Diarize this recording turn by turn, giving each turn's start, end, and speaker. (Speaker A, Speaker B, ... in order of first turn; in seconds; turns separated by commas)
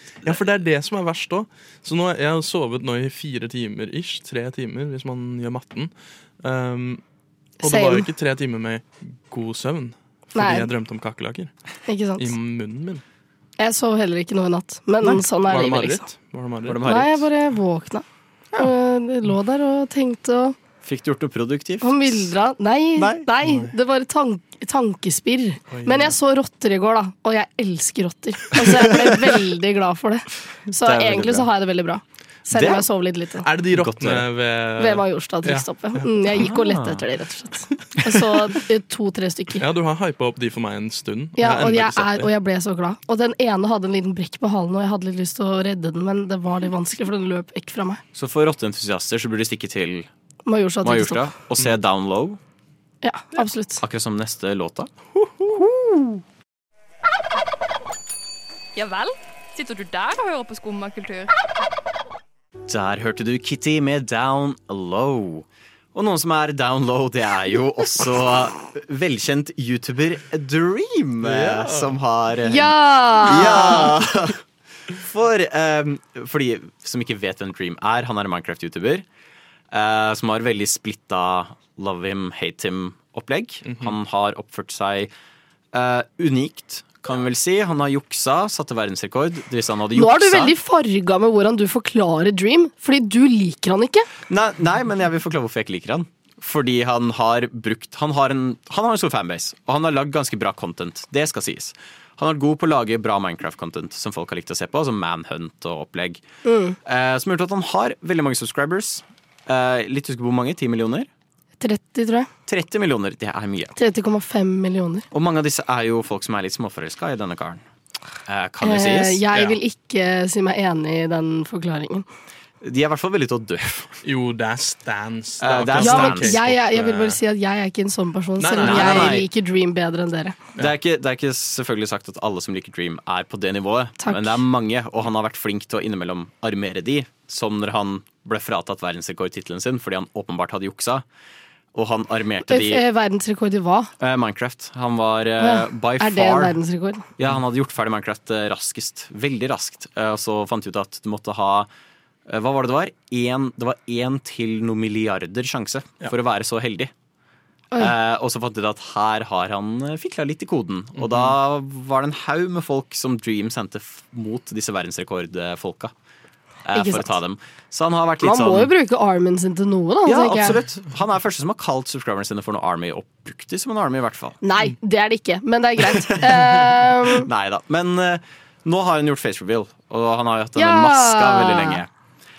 Speaker A: 0.2-5.9, Speaker A: 6.4-7.0, Speaker B: 7.6-8.1, Speaker A: 7.6-11.5, Speaker B: 10.3-10.7, Speaker B: 11.9-12.3, Speaker A: 12.2-13.0, Speaker B: 13.6-16.1, Speaker A: 15.0-16.9, Speaker C: 16.6-17.3, Speaker B: 16.9-18.0, Speaker B: 18.6-20.6, Speaker C: 20.8-22.3, Speaker B: 21.8-33.5, Speaker C: 23.0-23.3, Speaker A: 23.4-23.7, Speaker A: 25.7-26.1, Speaker C: 30.8-31.5, Speaker C: 32.5-32.9, Speaker A: 33.4-36.0, Speaker C: 33.7-34.3, Speaker B: 34.8-39.6, Speaker C: 36.4-37.0, Speaker A: 39.6-42.3, Speaker B: 41.4-48.0, Speaker C: 48.1-50.1, Speaker B: 50.5-51.3, Speaker C: 50.8-52.4, Speaker B: 53.0-53.8, Speaker C: 53.8-54.9, Speaker A: 55.2-55.6, Speaker C: 55.5-56.2, Speaker D: 58.8-61.3, Speaker C: 62.7-79.1, Speaker A: 71.2-72.0, Speaker B: 72.5-74.0, Speaker C: 79.7-85.1, Speaker A: 83.7-83.9, Speaker C: 85.7-90.5, Speaker B: 90.0-94.1, Speaker C: 94.3-106.2, Speaker B: 106.4-106.8, Speaker C: 106.8-111.1, Speaker B: 111.6-112.3, Speaker C: 112.5-113.8, Speaker B: 113.8-115.1, Speaker C: 115.1-117.6, Speaker C: 118.3-119.2, Speaker B: 118.6-122.0, Speaker A: 119.3-119.6, Speaker C: 122.6-124.0, Speaker A: 124.0-127.2, Speaker C: 125.4-126.4, Speaker B: 125.8-130.4, Speaker A: 128.4-129.2, Speaker C: 128.6-129.3, Speaker C: 130.6-141.1, Speaker B: 134.0-134.4, Speaker C: 141.7-142.8, Speaker B: 142.5-143.9, Speaker C: 144.0-146.6, Speaker B: 145.4-147.1, Speaker C: 147.2-151.7, Speaker C: 152.3-156.9, Speaker C: 157.8-165.9, Speaker A: 161.0-161.3, Speaker C: 166.7-168.7, Speaker B: 166.7-167.2, Speaker B: 168.2-170.6, Speaker C: 170.1-174.4, Speaker B: 174.4-177.3, Speaker C: 175.8-176.4, Speaker C: 177.0-181.9, Speaker B: 180.6-181.8